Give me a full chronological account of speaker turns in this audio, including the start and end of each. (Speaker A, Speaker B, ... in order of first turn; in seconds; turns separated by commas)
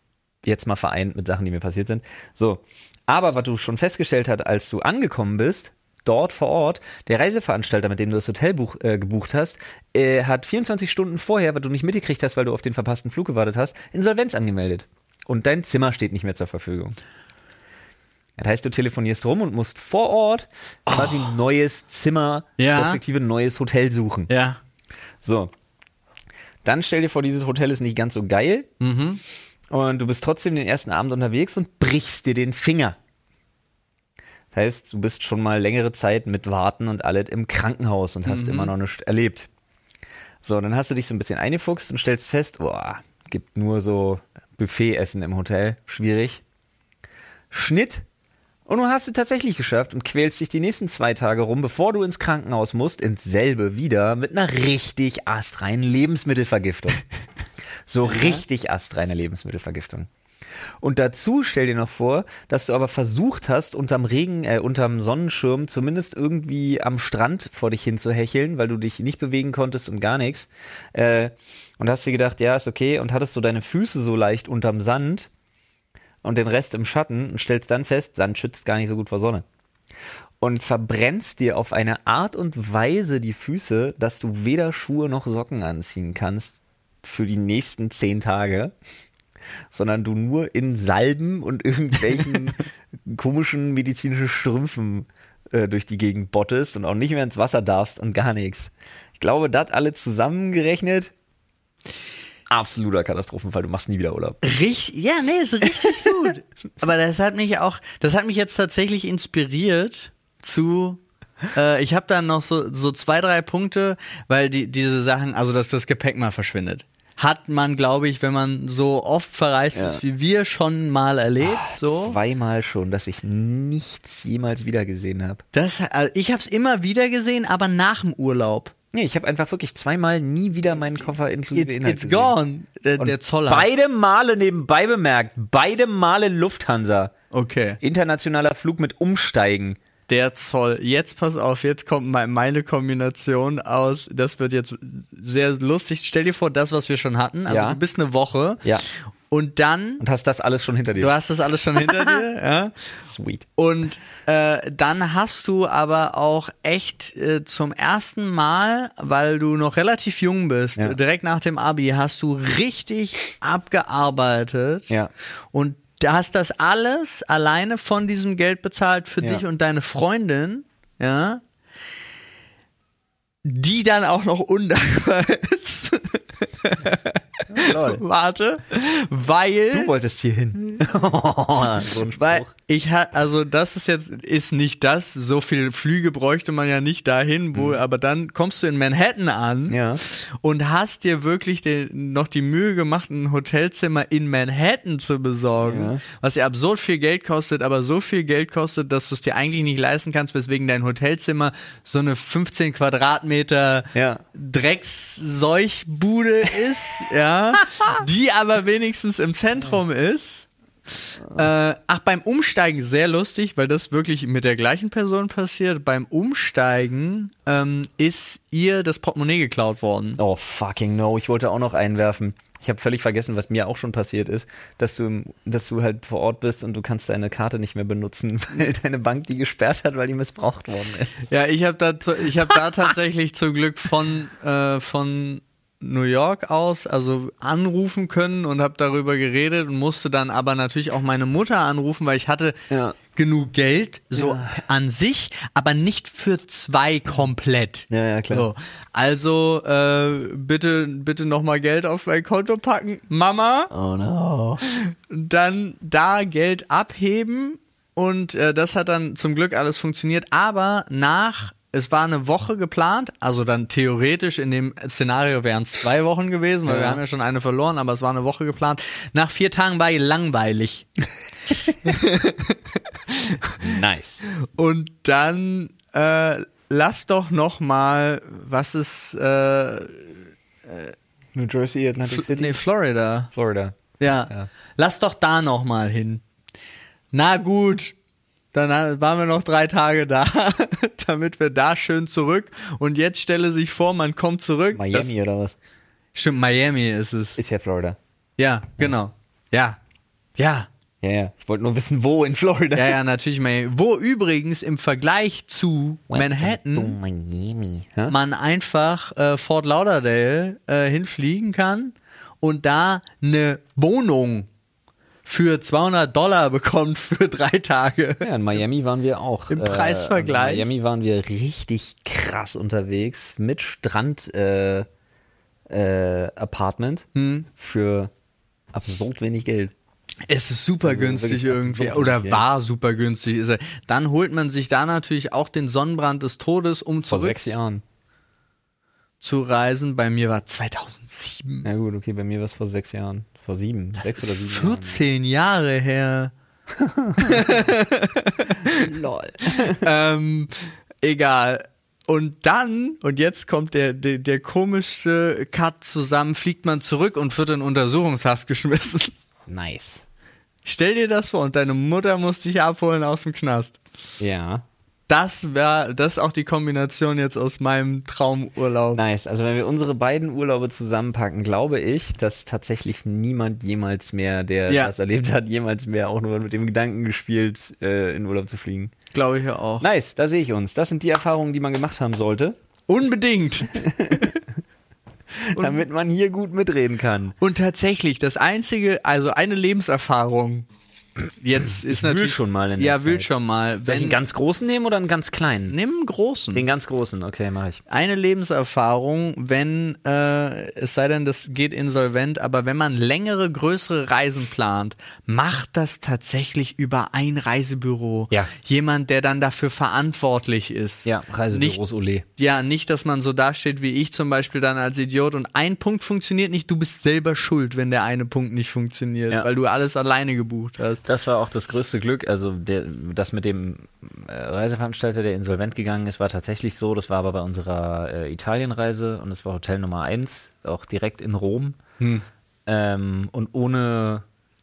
Speaker A: 0.4-16.9, Speaker A: 18.4-24.3, Speaker B: 20.9-21.3, Speaker B: 22.6-23.0, Speaker B: 24.3-24.6, Speaker A: 25.2-25.5, Speaker A: 26.6-28.7, Speaker B: 28.8-29.2, Speaker A: 29.7-33.0, Speaker A: 34.5-39.5, Speaker B: 38.2-38.7, Speaker A: 40.4-46.4, Speaker A: 47.5-48.0, Speaker A: 48.6-57.0, Speaker A: 57.9-60.1, Speaker B: 58.1-58.4, Speaker A: 60.8-75.3, Speaker A: 76.2-79.4, Speaker A: 80.4-88.7, Speaker A: 89.7-101.1, Speaker A: 102.5-104.4, Speaker B: 104.4-111.0, Speaker B: 111.5-122.2, Speaker A: 119.7-120.0, Speaker A: 121.4-125.4, Speaker B: 125.5-128.7, Speaker A: 128.9-132.3, Speaker B: 131.5-133.8, Speaker A: 133.0-137.1, Speaker B: 137.3-137.8, Speaker A: 137.8-139.8, Speaker B: 140.1-150.0, Speaker A: 147.5-147.8, Speaker A: 150.0-151.1, Speaker B: 151.0-152.7, Speaker A: 153.0-153.4, Speaker B: 153.6-164.9, Speaker B: 165.5-171.4, Speaker B: 173.4-179.9, Speaker A: 177.5-178.0, Speaker A: 179.7-182.5, Speaker B: 182.1-210.5, Speaker A: 187.5-187.8, Speaker A: 189.7-190.0, Speaker A: 195.6-196.0, Speaker A: 203.9-204.2, Speaker B: 211.0-220.2, Speaker A: 220.2-231.3, Speaker B: 231.3-242.6, Speaker A: 242.7-243.0, Speaker B: 243.1-253.7, Speaker A: 244.1-244.6, Speaker A: 247.9-248.5, Speaker A: 253.7-254.6, Speaker B: 254.7-270.9, Speaker A: 266.7-267.0, Speaker B: 271.6-273.7, Speaker A: 273.6-274.2, Speaker B: 274.4-280.9, Speaker A: 281.3-282.6, Speaker B: 282.0-283.3, Speaker A: 283.3-283.8, Speaker B: 284.0-286.2, Speaker B: 287.1-287.9, Speaker B: 288.5-295.1, Speaker A: 294.7-295.6, Speaker B: 296.1-297.4, Speaker A: 297.4-298.0, Speaker B: 298.4-299.8, Speaker B: 300.4-300.7, Speaker A: 301.0-303.0, Speaker B: 302.7-307.0, Speaker A: 306.1-308.1, Speaker B: 308.1-314.5, Speaker B: 315.2-318.3, Speaker A: 318.2-324.9, Speaker B: 319.5-320.7, Speaker A: 325.7-328.1, Speaker B: 327.1-327.5, Speaker A: 328.7-329.7, Speaker B: 330.3-337.5, Speaker A: 330.8-332.4, Speaker A: 337.1-337.8, Speaker B: 339.2-341.7, Speaker A: 341.6-345.0, Speaker B: 344.0-346.3, Speaker A: 346.7-347.7, Speaker B: 347.2-348.9, Speaker A: 348.6-349.8, Speaker B: 349.8-359.1, Speaker A: 359.5-360.0, Speaker B: 360.6-363.8, Speaker A: 364.2-364.6, Speaker B: 365.1-369.0, Speaker A: 368.9-378.9, Speaker B: 379.1-379.9, Speaker A: 379.8-382.6, Speaker B: 382.9-384.4, Speaker A: 383.8-384.3, Speaker A: 385.4-387.3, Speaker B: 385.5-385.8, Speaker B: 387.4-390.7, Speaker B: 391.4-394.2, Speaker A: 391.8-393.3, Speaker A: 393.8-395.7, Speaker B: 395.7-396.7, Speaker A: 396.5-397.8, Speaker B: 397.9-411.8, Speaker A: 411.0-412.2, Speaker B: 412.4-421.0, Speaker A: 421.0-431.8, Speaker B: 432.0-432.2, Speaker A: 432.6-434.2